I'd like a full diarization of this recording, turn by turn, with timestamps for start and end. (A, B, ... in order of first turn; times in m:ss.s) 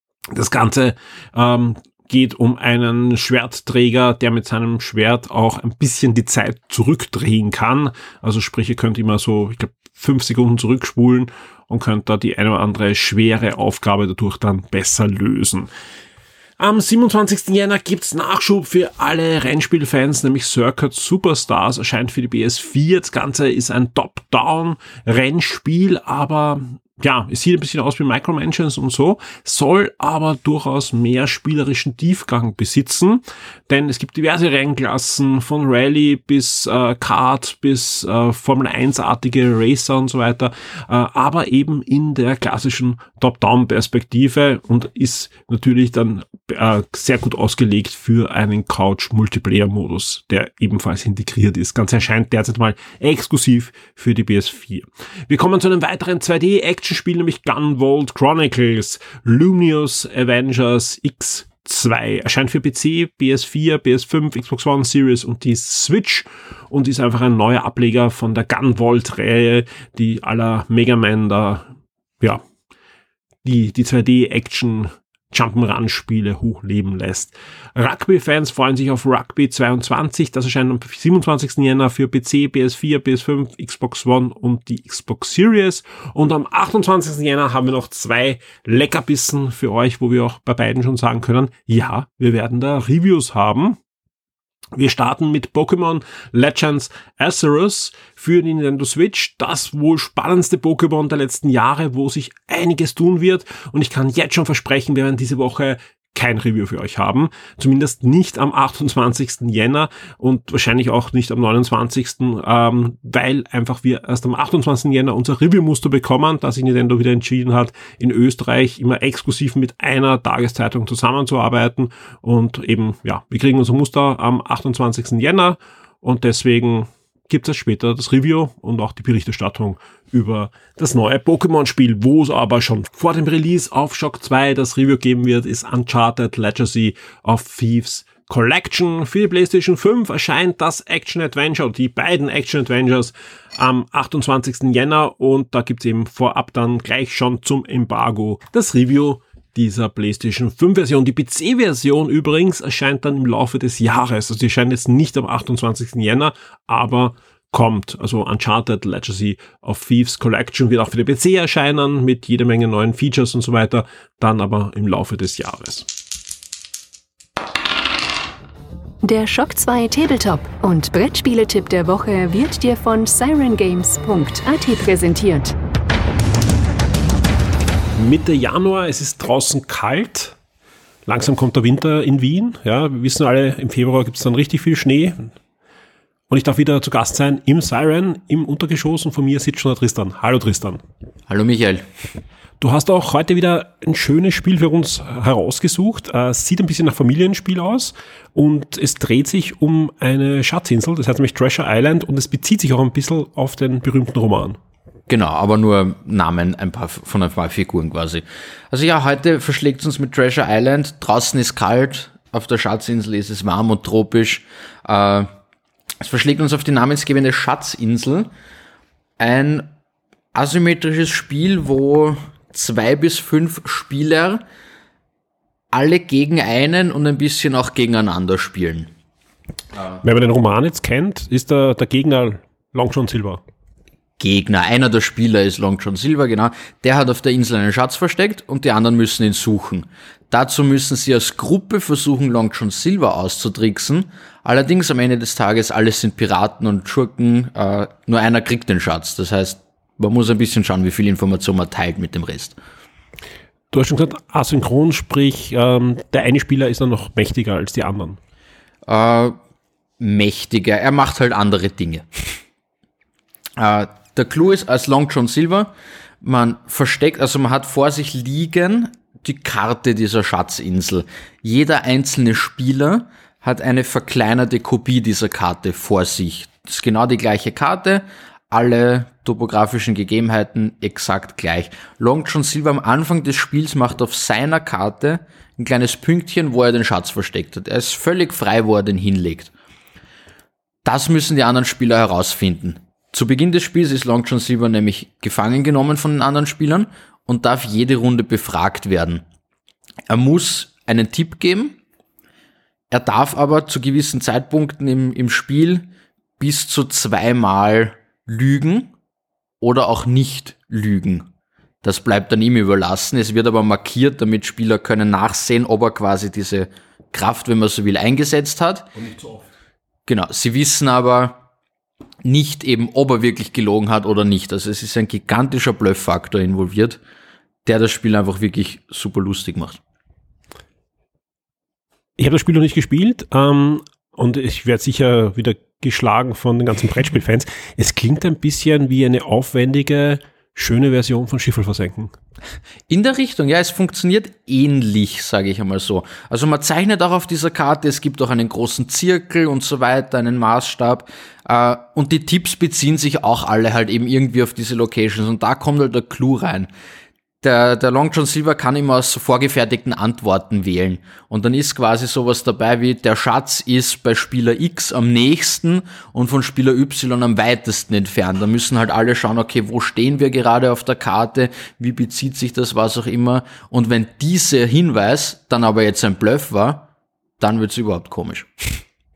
0:00.3-0:15.7 A
0:16.6-1:11.7 A
1:13.4-1:33.8 A
1:34.7-2:45.9 A
2:49.0-2:55.6 B
2:57.9-3:00.4 A
3:01.0-3:05.3 A
3:06.3-3:10.8 A
3:11.3-3:11.8 C
3:12.6-3:24.6 A
3:25.1-3:35.3 C
3:36.0-3:38.3 C
3:39.2-3:39.7 C
3:40.3-3:44.4 C
3:45.7-3:48.9 C
3:50.0-3:53.4 A
3:54.2-4:12.6 C
4:13.7-4:18.2 A
4:18.9-4:19.4 C
4:20.0-4:22.0 C
4:23.6-4:49.5 C
4:50.8-4:59.2 C
5:00.1-5:01.8 C
5:02.9-5:08.9 C
5:09.6-5:11.3 C
5:11.8-5:18.9 C
5:18.9-5:19.4 A
5:20.1-5:21.4 C
5:22.2-5:27.0 C
5:27.6-5:29.8 C
5:32.2-5:42.1 A
5:42.9-5:56.7 C
5:57.4-6:16.9 C
6:17.4-6:18.8 C